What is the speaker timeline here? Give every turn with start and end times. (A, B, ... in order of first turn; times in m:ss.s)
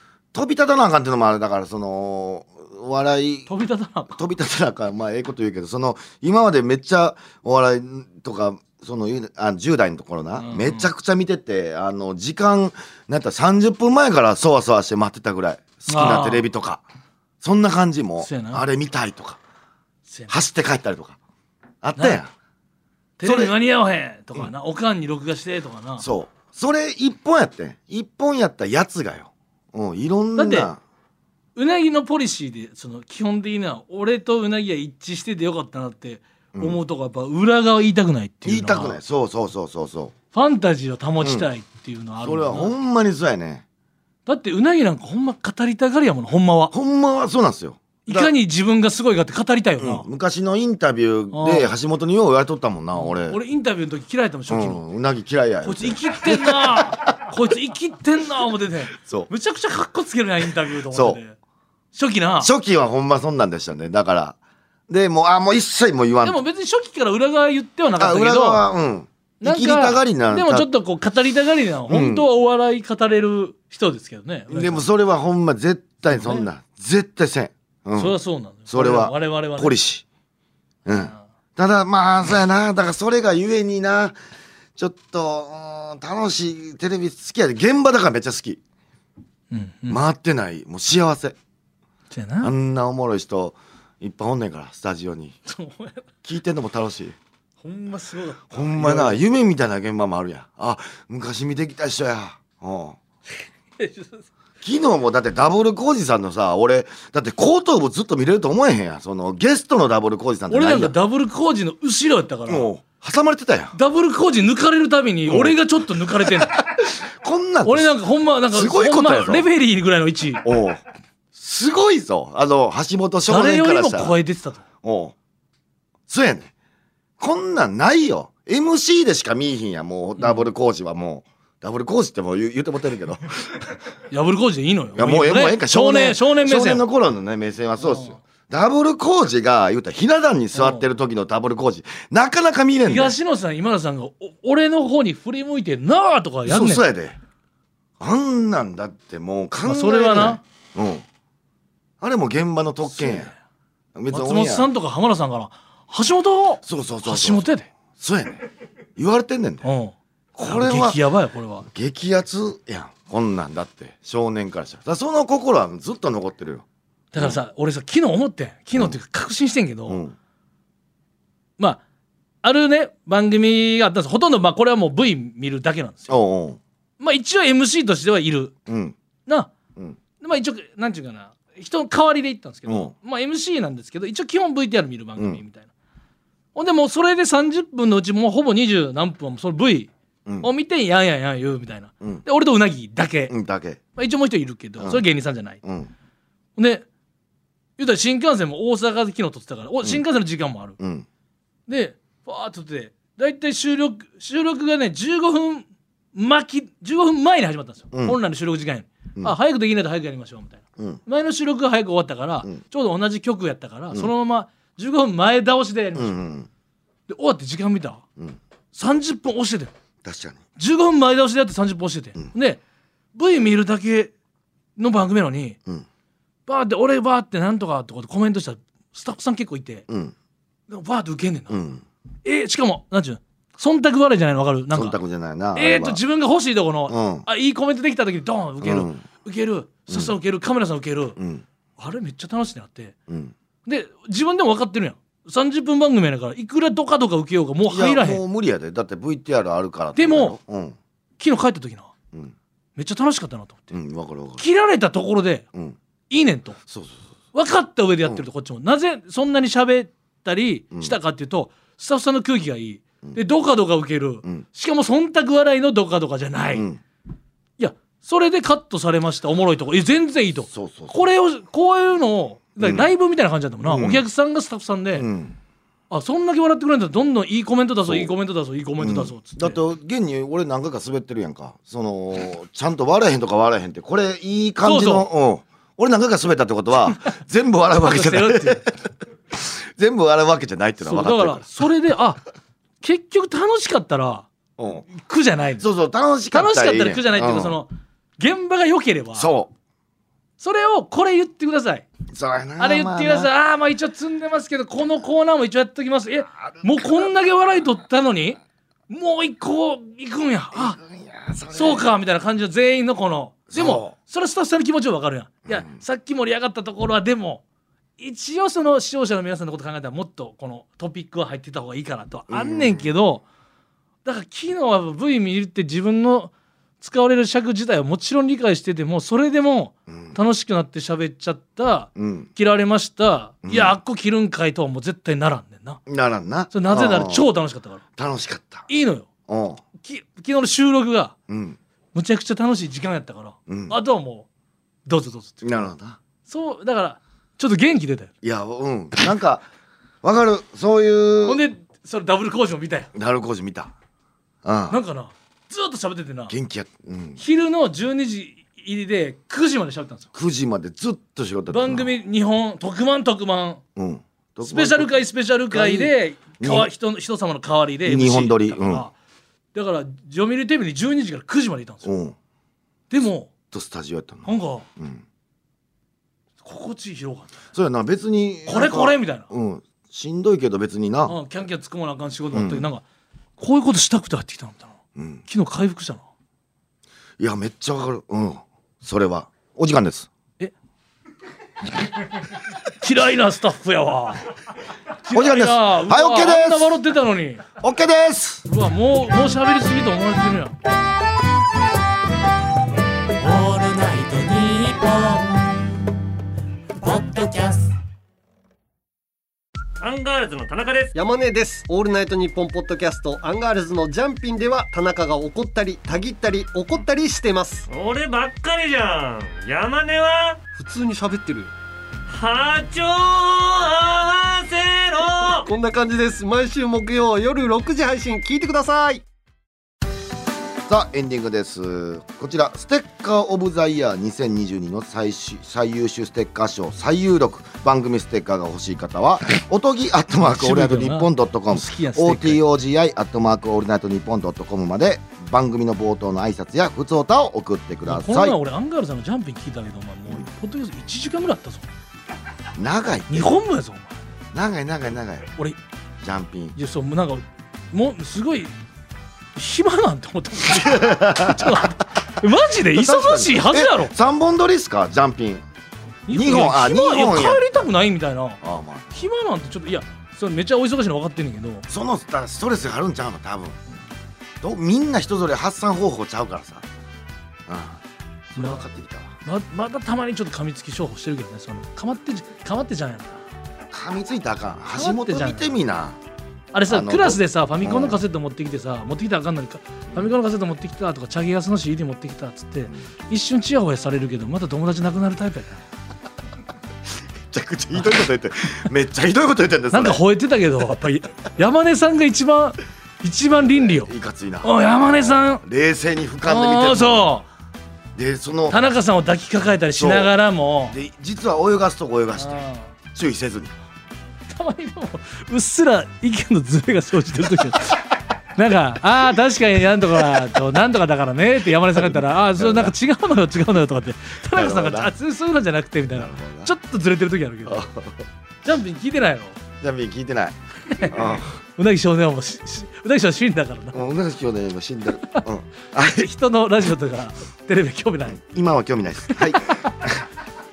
0:00.3-0:03.5 A
0:03.5-0:04.2 B
0:04.1-0:16.8 A
0:10.4-0:10.9 B
0:15.9-0:16.5 B
0:17.4-0:19.4 A
0:18.2-0:18.6 B
0:20.0-0:20.3 B
0:20.3-0:21.2 A
0:21.8-0:22.3 A
0:22.0-0:22.2 B
0:23.2-0:26.0 B
0:23.2-0:23.5 A
0:26.0-0:30.8 A
0:30.4-0:30.7 B
0:31.6-0:39.0 B
0:36.5-0:36.8 A
0:38.4-0:40.1 A
0:40.3-0:42.7 B
0:41.2-0:41.5 A
0:42.2-0:43.6 A
0:44.2-0:46.7 B
0:46.7-0:48.3 A
0:48.0-0:50.0 B
0:49.8-0:53.4 A
0:51.3-0:51.7 B
0:52.9-0:54.8 B
0:54.5-0:56.9 A
0:55.6-1:01.4 B
0:59.0-0:59.3 A
1:00.9-1:01.2 A
1:01.9-1:02.5 B
1:02.4-1:04.4 A
1:04.9-1:06.4 A
1:06.2-1:08.6 B
1:08.0-1:10.7 A
1:09.4-1:14.8 B
1:11.9-1:12.3 A
1:14.5-1:18.1 A
1:16.1-1:16.4 B
1:18.0-1:19.8 B
1:18.7-1:20.0 A
1:20.8-1:24.2 A
1:24.8-1:28.6 A
1:29.5-1:30.0 B
1:29.9-1:31.4 A
1:32.1-1:32.5 B
1:32.4-1:35.4 A
1:35.4-1:36.1 B
1:36.2-1:37.2 A
1:37.6-1:39.2 B
1:38.5-1:43.0 A
1:43.8-1:44.3 B
1:44.6-1:50.9 A
1:50.5-1:52.7 B
1:52.5-1:53.7 A
1:53.7-1:56.6 B
1:55.3-1:55.6 A
1:56.2-1:57.9 A
1:57.6-2:00.4 B
1:58.5-1:59.5 A
2:00.4-2:04.1 A
2:03.3-2:04.6 B
2:04.8-2:05.1 A
2:06.1-2:06.5 A
2:07.2-2:13.5 A
2:14.1-2:16.8 B
2:15.0-2:23.2 A
2:17.8-2:18.2 B
2:20.5-2:20.8 B
2:22.9-2:26.8 B
2:26.4-2:27.2 A
2:28.0-2:31.0 A
2:29.6-2:30.4 B
2:32.0-2:33.3 A
2:32.9-2:33.3 B
2:33.9-2:34.7 A
2:34.1-2:37.7 B
2:36.6-2:38.4 A
2:39.0-2:39.6 A
2:39.6-2:41.7 B
2:40.3-2:41.0 A
2:41.6-2:46.6 A
2:47.1-2:50.0 B
2:49.9-2:50.1 A
2:52.4-2:56.1 B
2:56.1-2:56.6 A
2:57.0-2:58.5 B
2:58.7-2:59.0 A
2:59.2-2:59.5 B
3:00.2-3:05.7 B
3:02.7-3:02.9 A
3:05.2-3:05.4 A
3:06.5-3:13.3 B
3:13.3-3:13.8 A
3:13.9-3:15.6 B
3:14.8-3:15.0 A
3:15.6-3:15.9 A
3:16.6-3:16.8 B
3:17.8-3:20.8 B
3:20.8-3:21.0 A
3:21.7-3:36.2 B
3:27.9-3:28.2 A
3:36.0-3:36.5 A
3:37.1-3:38.0 B
3:38.7-3:39.7 B
3:40.0-3:40.4 A
3:40.6-3:42.6 B
3:43.1-3:44.1 B
3:44.8-3:45.6 B
3:46.5-3:49.8 B
3:49.9-3:50.1 A
3:50.7-3:51.6 B
3:51.5-3:51.8 A
3:52.2-3:55.0 B
3:54.7-3:56.0 A
3:55.5-4:01.2 B
3:56.9-3:57.2 A
3:58.6-3:59.0 A
4:01.2-4:01.4 A
4:01.8-4:02.9 B
4:03.1-4:03.3 A
4:03.6-4:08.2 B
4:07.7-4:10.8 A
4:10.0-4:10.4 B
4:11.2-4:11.9 B
4:12.8-4:13.8 B
4:13.7-4:14.4 A
4:14.4-4:15.4 B
4:16.1-4:16.6 B
4:16.7-4:17.0 A
4:17.3-4:26.7 B
4:26.5-4:26.8 A
4:27.6-4:35.1 B
4:30.5-4:31.0 A
4:32.6-4:32.9 A
4:33.6-4:34.0 A
4:34.9-4:35.4 A
4:35.9-4:39.6 B
4:38.8-4:48.8 A
4:44.6-4:45.1 B
4:47.8-4:48.6 B
4:49.3-4:51.5 A
4:50.8-4:52.2 B
4:52.8-4:54.3 B
4:54.6-4:54.9 A
4:54.9-4:55.6 B
4:55.6-4:57.6 A
4:56.3-4:59.3 B
4:59.2-4:59.5 A
5:00.4-5:01.8 B
5:02.1-5:03.3 A
5:02.6-5:10.8 B
5:06.6-5:07.1 A
5:10.5-5:11.9 A
5:11.5-5:17.4 B
5:13.5-5:13.9 A
5:15.5-5:15.8 A
5:18.0-5:23.2 B
5:22.3-5:22.9 A
5:24.0-5:35.8 B
5:29.9-5:30.2 A
5:32.0-5:32.3 A
5:33.4-5:33.8 A
5:35.9-5:37.2 A
5:36.5-5:37.8 B
5:38.0-5:38.7 A
5:38.7-5:39.1 B
5:39.3-5:39.6 A
5:39.8-5:41.1 B
5:41.3-5:41.6 A
5:41.9-5:44.3 B
5:43.5-5:43.8 A
5:44.9-5:45.7 B
5:45.4-5:46.0 A
5:46.2-5:48.1 B
5:48.2-5:49.4 A
5:50.0-5:51.4 A
5:51.2-5:52.9 B
5:52.9-5:53.7 A
5:54.4-5:54.8 A
5:54.7-5:56.3 B
5:56.3-5:57.2 A
5:57.2-6:00.1 B
6:00.1-6:01.9 A
6:01.5-6:03.6 B
6:03.8-6:06.7 A
6:04.4-6:08.9 B
6:07.8-6:08.9 A
6:09.5-6:11.9 B
6:11.8-6:12.2 A
6:12.9-6:13.3 B
6:13.5-6:15.0 A
6:14.2-6:14.6 B
6:16.4-6:17.4 B
6:17.5-6:21.2 A
6:18.4-6:19.3 B
6:21.0-6:22.8 B
6:22.3-6:22.7 A
6:23.4-6:26.0 B
6:25.0-6:25.2 A
6:27.2-6:30.1 A
6:32.8-6:34.2 B
6:35.0-6:37.4 B
6:35.1-6:36.7 A
6:37.6-6:38.4 A
6:38.5-6:40.6 B
6:43.2-6:45.5 C
6:46.8-6:47.7 C
6:49.8-6:50.9 D
6:50.9-6:57.7 E
6:57.7-7:00.4 D
7:00.5-7:01.5 E
7:02.1-7:05.5 D
7:05.4-7:09.0 E
7:10.7-7:28.4 A
7:20.2-7:22.4 B
7:27.8-7:31.7 B
7:32.6-7:33.4 A
7:33.1-7:34.0 B
7:34.3-7:35.3 A
7:36.0-7:36.6 A
7:36.6-7:38.5 B
7:39.4-7:43.9 B
7:40.5-7:41.7 A
7:42.7-7:45.4 A
7:46.1-7:48.4 B
7:46.1-7:47.7 A
7:48.4-7:49.1 A
7:48.9-7:51.6 B
7:51.7-7:53.6 A
7:54.4-7:56.6 A
7:57.5-7:59.2 A
7:59.2-8:03.2 B
8:03.7-8:06.0 A
8:04.7-8:05.5 B
8:06.5-8:15.6 B
8:06.7-8:08.0 A
8:17.3-8:20.0 A
8:19.7-8:23.9 B
8:23.4-8:27.1 A
8:24.4-8:25.4 B
8:26.2-8:27.3 B
8:27.9-8:28.7 A
8:28.5-8:30.8 B
8:29.8-8:30.1 A
8:30.7-8:32.4 A
8:32.2-8:32.7 B
8:32.9-8:33.5 A
8:34.3-8:37.8 B
8:38.4-8:47.7 B
8:41.8-8:42.7 A
8:44.3-8:44.9 A
8:45.9-8:46.5 A
8:47.5-8:48.0 A
8:48.4-8:49.4 B
8:49.6-8:50.4 A
8:50.6-8:53.8 B
8:50.9-8:51.3 A
8:53.7-8:56.1 A
8:55.8-8:58.2 B
8:58.1-9:00.0 A
8:59.1-8:59.6 B